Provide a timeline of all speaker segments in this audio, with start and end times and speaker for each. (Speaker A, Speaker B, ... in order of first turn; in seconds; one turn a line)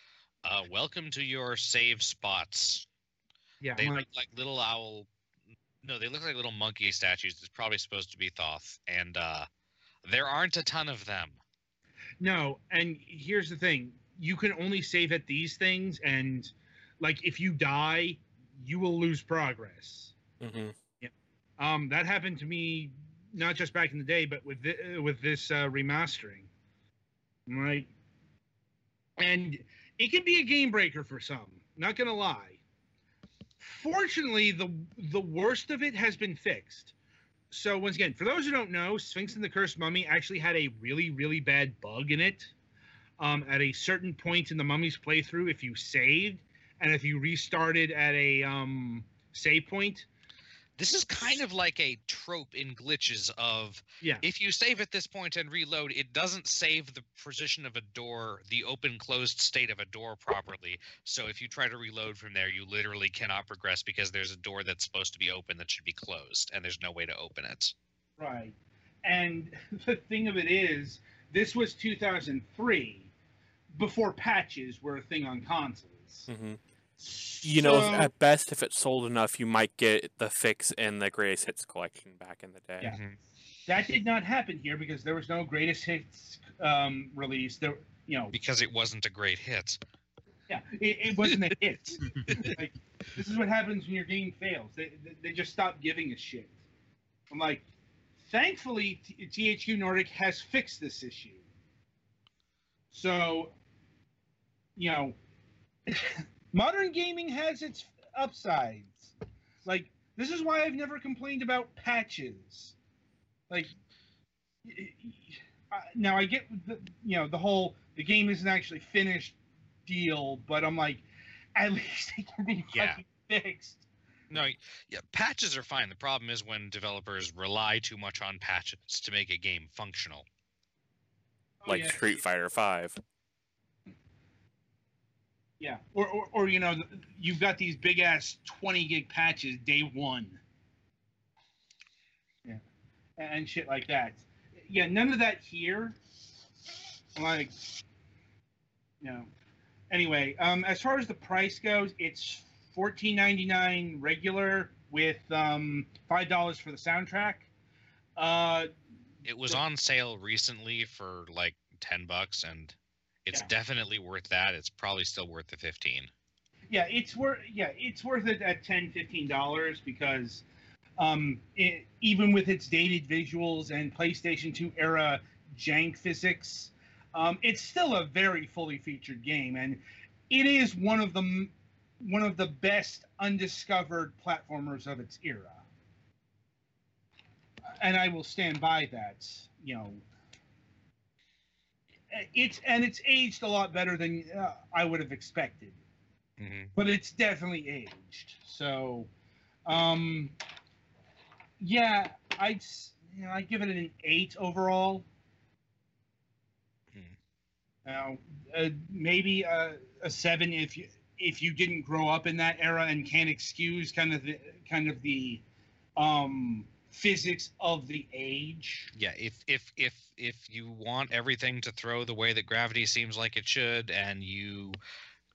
Speaker A: 0.4-2.9
Speaker B: 3.6-4.0
Speaker A: 3.8-5.1
Speaker A: 5.8-9.5
Speaker A: 10.1-11.4
Speaker B: 12.2-20.1
Speaker C: 20.4-20.8
Speaker B: 21.0-26.5
Speaker B: 27.5-27.9
Speaker B: 29.2-32.6
Speaker B: 33.6-36.9
Speaker B: 37.5-42.5
Speaker B: 43.2-50.1
Speaker A: 50.8-67.7
Speaker B: 68.2-73.1
Speaker B: 73.7-76.3
Speaker C: 76.3-76.6
Speaker B: 77.0-78.1
Speaker C: 77.4-82.9
Speaker A: 82.8-83.2
Speaker B: 83.7-88.3
Speaker A: 88.3-89.8
Speaker B: 90.5-96.5
Speaker B: 97.3-97.6
Speaker B: 98.2-101.4
Speaker B: 102.9-103.5
Speaker B: 104.8-105.2
Speaker B: 105.9-109.1
Speaker B: 109.6-112.7
Speaker B: 114.6-121.0
Speaker B: 121.6-123.8
Speaker A: 122.7-123.0
Speaker A: 124.3-130.2
Speaker B: 131.6-132.2
Speaker C: 131.7-133.0
Speaker B: 135.6-140.4
Speaker B: 143.2-146.0
Speaker B: 147.2-147.5
Speaker B: 149.0-149.3
Speaker B: 149.9-157.5
Speaker B: 158.2-158.7
Speaker A: 159.2-162.7
Speaker A: 163.3-166.1
Speaker B: 166.7-170.4
Speaker B: 171.0-181.5
Speaker B: 182.0-185.6
Speaker B: 187.8-190.0
Speaker B: 192.1-195.8
Speaker A: 196.4-196.7
Speaker B: 196.8-199.1
Speaker B: 199.7-200.3
Speaker B: 201.6-205.1
Speaker B: 207.8-215.4
Speaker B: 215.9-218.9
Speaker A: 218.9-224.8